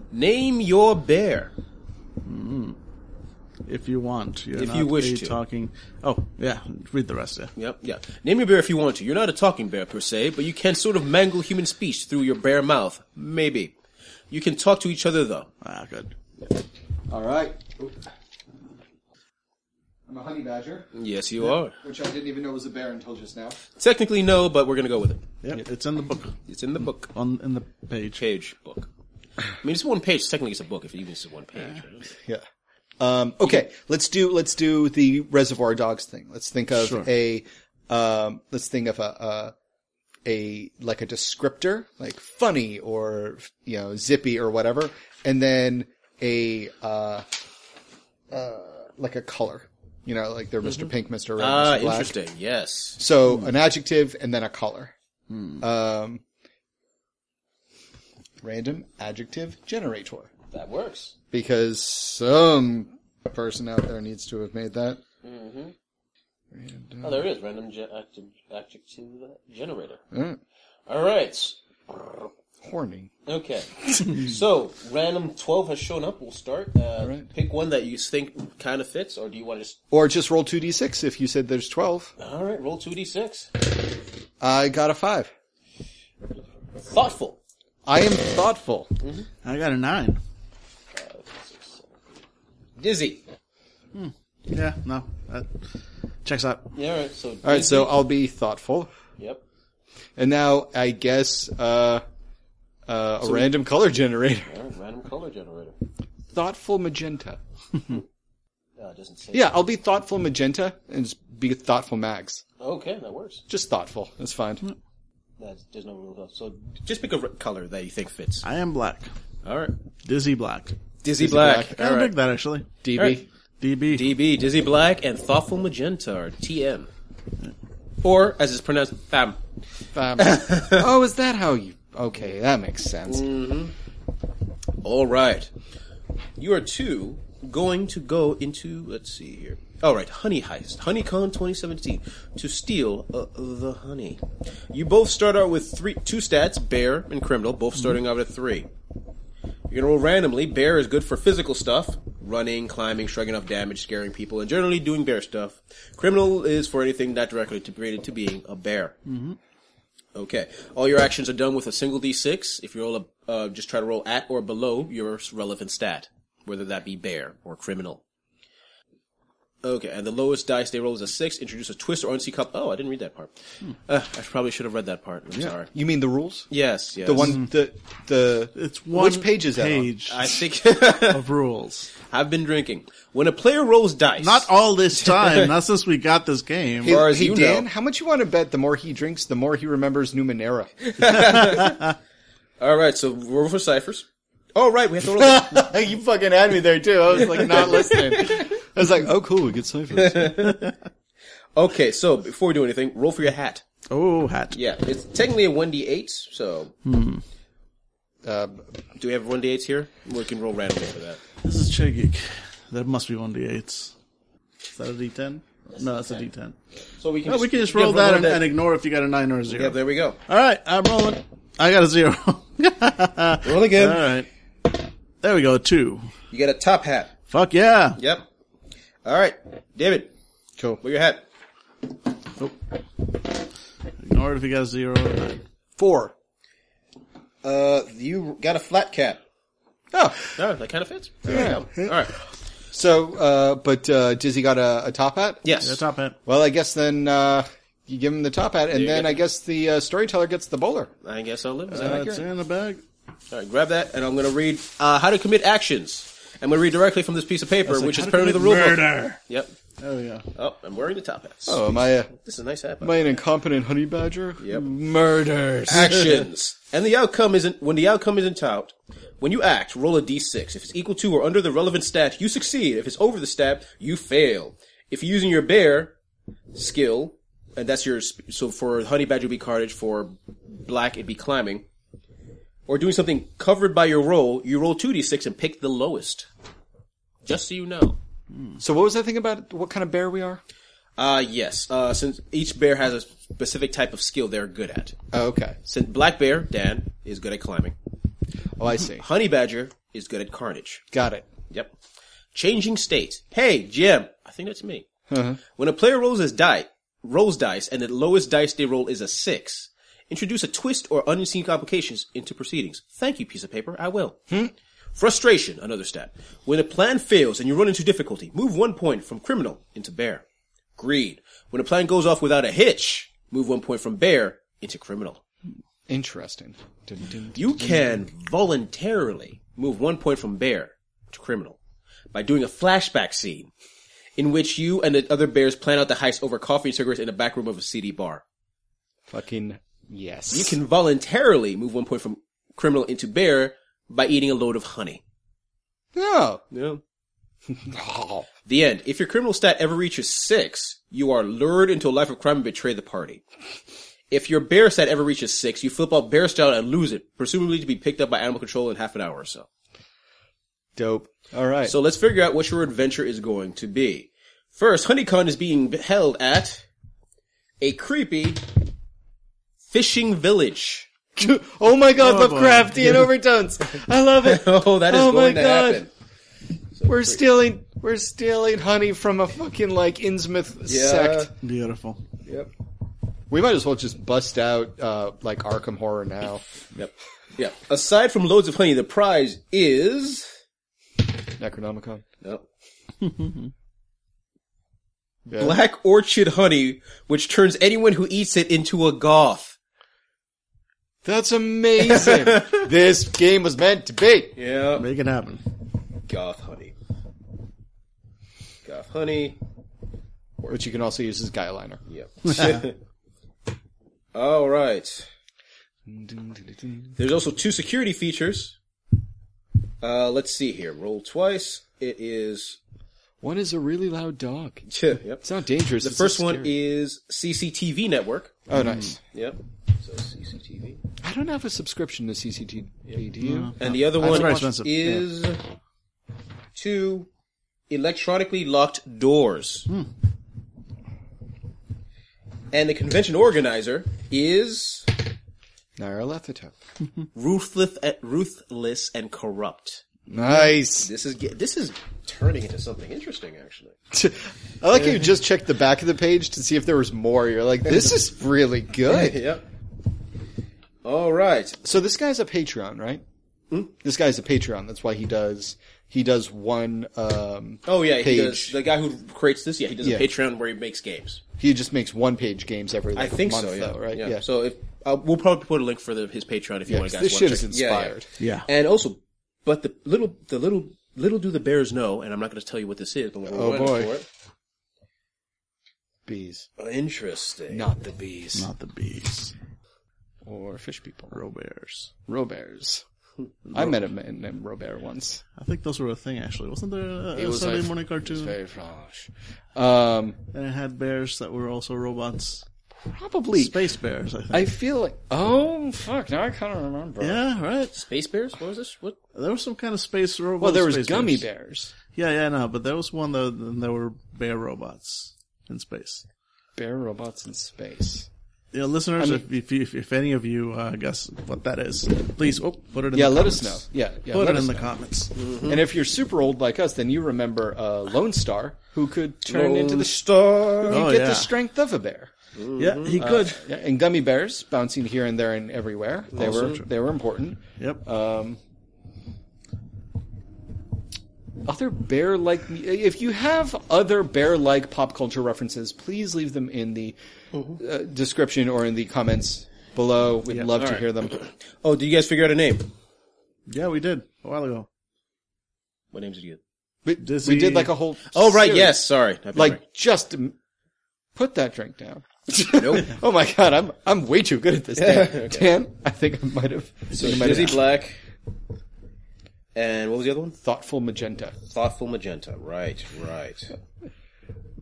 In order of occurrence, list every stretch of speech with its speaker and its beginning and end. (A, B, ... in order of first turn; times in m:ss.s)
0:00.1-0:01.5 A
0:02.3-0:02.8 B
0:03.7-0:07.5 B
0:04.5-0:05.4 A
0:07.6-0:13.7 A
0:14.3-0:15.5 A
0:15.6-0:16.1 B
0:17.1-0:18.0 C
0:20.1-0:20.9 C
0:20.9-0:21.8 A
0:21.7-0:23.6 C
0:23.8-0:25.2 A
0:25.4-0:26.4 B
0:26.5-0:27.1 A
0:27.1-0:28.2 B
0:28.2-0:28.9 A
0:29.6-0:32.1 A
0:33.0-0:39.5 C
0:36.8-0:37.1 B
0:40.2-0:47.3 C
0:48.3-0:52.1 C
0:50.6-0:53.0 A
0:53.0-0:54.9 C
0:55.6-0:56.2 C
0:58.4-1:00.3 C
1:00.5-1:01.2 A
1:01.3-1:05.0 C
1:05.2-1:05.7 A
1:06.5-1:07.2 C
1:07.0-1:10.0 A
1:10.1-1:10.4 C
1:10.9-1:11.6 A
1:12.6-1:13.1 C
1:13.3-1:19.8 A
1:17.0-1:17.3 C
1:19.9-1:22.1 C
1:22.2-1:23.5 A
1:24.4-1:25.3 C
1:26.8-1:27.4 A
1:27.8-1:28.9 C
1:29.0-1:29.3 A
1:29.4-1:30.2 B
1:30.9-1:31.9 A
1:32.8-1:33.2 A
1:34.0-1:35.6 B
1:36.2-1:36.7 B
1:36.7-1:38.0 A
1:37.4-1:38.9 C
1:40.2-1:42.0 C
1:42.9-1:44.5 C
1:43.2-1:43.5 A
1:44.5-1:45.8 A
1:46.3-1:47.4 C
1:48.8-1:49.6 A
1:49.3-1:52.4 C
1:52.6-1:53.4 A
1:53.5-1:54.6 C
1:55.4-1:58.4 A
1:58.4-1:59.1 B
1:59.4-1:59.7 A
2:00.0-2:00.8 B
2:01.0-2:02.1 A
2:01.2-2:01.7 C
2:01.7-2:02.7 B
2:02.8-2:03.3 C
2:03.6-2:04.1 B
2:03.9-2:06.9 A
2:08.0-2:09.4 A
2:09.9-2:13.3 C
2:10.2-2:10.9 A
2:13.1-2:13.7 A
2:14.8-2:15.5 A
2:16.4-2:28.7 A
2:29.7-2:39.0 A
2:39.1-2:39.4 B
2:40.2-2:48.0 A
2:49.6-2:53.3 A
2:53.9-2:55.7 A
2:55.3-2:59.9 C
2:56.5-2:57.4 A
2:57.2-2:57.5 B
2:58.6-3:00.4 B
3:00.1-3:01.2 A
3:01.1-3:01.9 B
3:02.1-3:04.5 A
3:04.2-3:07.0 B
3:05.1-3:05.5 A
3:06.8-3:10.7 C
3:06.9-3:07.7 A
3:10.8-3:11.9 A
3:12.6-3:15.7 A
3:15.2-3:20.4 C
3:17.3-3:18.2 A
3:20.0-3:20.7 A
3:21.6-3:23.6 A
3:23.9-3:24.6 B
3:24.5-3:26.7 A
3:26.8-3:27.2 B
3:28.2-3:28.7 C
3:29.0-3:31.2 A
3:31.4-3:33.9 B
3:34.7-3:36.6 B
3:35.7-3:36.3 A
3:36.9-3:38.4 A
3:37.3-3:46.1 B
3:39.5-3:40.2 A
3:43.4-3:44.1 A
3:46.3-3:47.2 A
3:47.3-3:48.0 B
3:48.0-3:48.3 A
3:49.0-3:50.1 A
3:50.8-3:51.2 A
3:54.0-3:55.4 B
3:55.8-3:56.1 C
3:57.4-3:59.2 A
3:59.9-4:00.4 C
4:00.4-4:02.1 A
4:01.2-4:02.1 C
4:02.7-4:05.5 C
4:05.4-4:05.8 A
4:05.6-4:06.2 B
4:06.3-4:10.9 C
4:08.7-4:09.2 A
4:11.0-4:12.2 A
4:11.7-4:12.8 B
4:13.3-4:19.6 A
4:17.7-4:19.2 B
4:19.8-4:20.3 B
4:20.4-4:23.1 A
4:21.5-4:22.1 C
4:22.8-4:26.2 C
4:24.4-4:24.7 A
4:25.7-4:35.9 A
4:36.5-4:41.7 A
4:42.7-4:46.3 A
4:47.2-4:48.0 A
4:48.6-4:50.4 C
4:51.0-4:55.0 A
4:55.1-4:55.6 C
4:55.6-4:57.8 A
4:58.6-4:59.0 C
4:58.9-5:00.8 A
5:00.9-5:01.3 C
5:02.3-5:04.9 A
5:05.1-5:05.4 C
5:05.6-5:14.2 A
5:15.0-5:20.2 A
5:20.8-5:25.2 A
5:25.9-5:27.9 C
5:27.4-5:31.6 A
5:32.1-5:33.5 A
5:34.2-5:38.2 A
5:39.1-5:40.6 C
5:40.3-5:45.0 A
5:45.9-5:46.4 C
5:46.5-5:46.8 A
5:47.5-5:48.3 C
5:48.5-5:53.2 A
5:54.1-5:59.5 A
6:00.8-6:01.8 C
6:01.6-6:06.7 A
6:07.6-6:08.5 A
6:09.7-6:10.9 A
6:11.2-6:15.9 C
6:12.0-6:13.1 B
6:14.2-6:15.9 A
6:16.8-6:17.2 A
6:16.8-6:21.3 C
6:20.7-6:21.3 A
6:21.4-6:22.0 B
6:23.3-6:26.7 C
6:26.8-6:30.3 A
6:31.4-6:32.0 C
6:35.3-6:35.6 C
6:35.4-6:39.6 A
6:41.0-6:44.3 C
6:41.9-6:42.7 A
6:44.4-6:44.9 A
6:44.8-6:45.4 B
6:46.1-6:46.8 A
6:48.6-6:49.4 A
6:50.5-6:51.8 C
6:51.9-6:52.8 A
6:54.1-6:55.1 A
6:55.9-6:57.0 C
6:57.0-6:58.6 A
6:59.8-7:02.6 A
7:03.2-7:06.5 C
7:04.7-7:05.2 A
7:05.8-7:08.4 A
7:08.5-7:09.0 C
7:09.1-7:10.8 A
7:11.0-7:14.4 C
7:13.2-7:15.0 B
7:13.6-7:15.4 A
7:16.6-7:17.1 A
7:17.7-7:19.7 A
7:22.5-7:24.9 A
7:25.8-7:26.6 C
7:27.2-7:33.8 A
7:30.1-7:30.9 C
7:33.9-7:39.2 C
7:38.9-7:39.4 A
7:40.8-7:41.6 A
7:41.6-7:43.0 C
7:43.8-7:48.6 C
7:47.6-7:51.2 A
7:49.8-7:50.1 C
7:51.4-7:54.2 C
7:53.0-8:04.1 A
7:56.7-7:58.1 C
7:58.2-7:58.5 B
8:03.3-8:04.0 C
8:06.1-8:06.5 C
8:06.6-8:07.7 A
8:07.5-8:08.5 C
8:08.3-8:09.3 B
8:10.2-8:11.2 C
8:11.1-8:11.9 B
8:12.1-8:12.8 C
8:13.5-8:13.8 B
8:13.5-8:15.2 C
8:15.4-8:18.4 B
8:17.1-8:20.2 C
8:20.3-8:22.4 B
8:22.8-8:23.6 C
8:23.3-8:24.5 B
8:24.3-8:27.2 C
8:27.0-8:27.8 B
8:27.8-8:29.0 A
8:29.2-8:31.2 B
8:30.4-8:31.7 C
8:31.9-8:36.0 B
8:36.6-8:38.1 C
8:38.5-8:45.1 B
8:39.0-8:39.2 C
8:42.9-8:44.7 C
8:45.2-8:45.6 A
8:45.4-8:52.1 C
8:49.2-8:50.8 A
8:50.7-8:51.3 B
8:52.4-8:53.0 A
8:52.6-8:53.4 B
8:52.9-8:58.4 C
8:56.1-8:56.6 A
9:01.4-9:07.0 C
9:07.6-9:11.2 C
9:10.6-9:12.7 A
9:13.5-9:14.7 B
9:15.9-9:16.4 A
9:16.8-9:18.8 C
9:17.0-9:17.7 B
9:18.1-9:19.6 A
9:19.3-9:20.4 C
9:21.2-9:27.6 C
9:22.6-9:22.9 A
9:24.8-9:25.5 A
9:26.9-9:28.0 A
9:29.6-9:30.4 A
9:30.4-9:31.4 C
9:31.5-9:33.6 A